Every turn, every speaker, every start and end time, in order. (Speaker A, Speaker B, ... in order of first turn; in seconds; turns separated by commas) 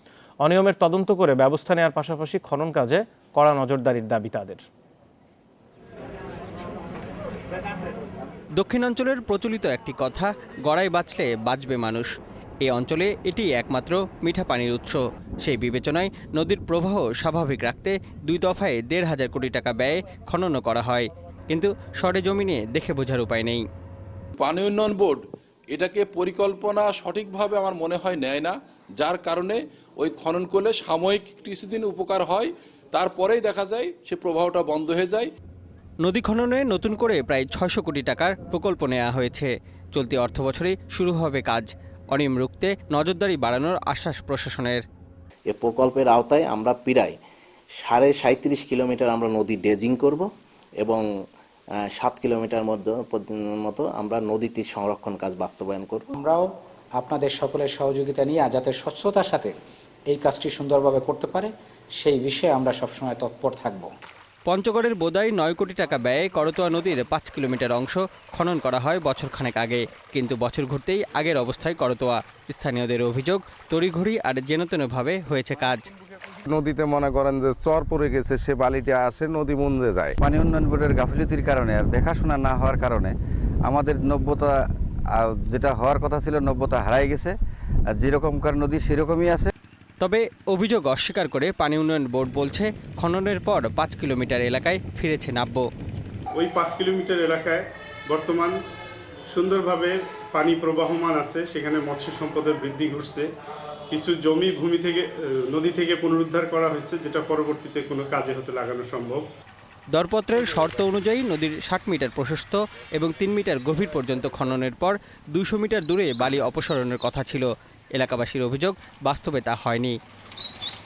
Speaker A: 0.4-4.6, Speaker B: 8.6-12.1, Speaker B: 12.6-23.6, Speaker C: 24.4-35.3, Speaker B: 36.0-44.8, Speaker D: 45.5-47.2, Speaker D: 47.8-50.3, Speaker D: 51.9-56.1, Speaker E: 56.2-59.5, Speaker E: 60.1-63.9, Speaker B: 64.5-75.9, Speaker F: 76.5-80.2, Speaker G: 80.2-83.1, Speaker G: 83.7-84.5, Speaker G: 85.1-87.3, Speaker G: 87.9-89.5, Speaker B: 90.0-95.7, Speaker H: 96.3-98.6, Speaker H: 99.3-103.3, Speaker H: 103.9-109.3, Speaker B: 109.9-120.0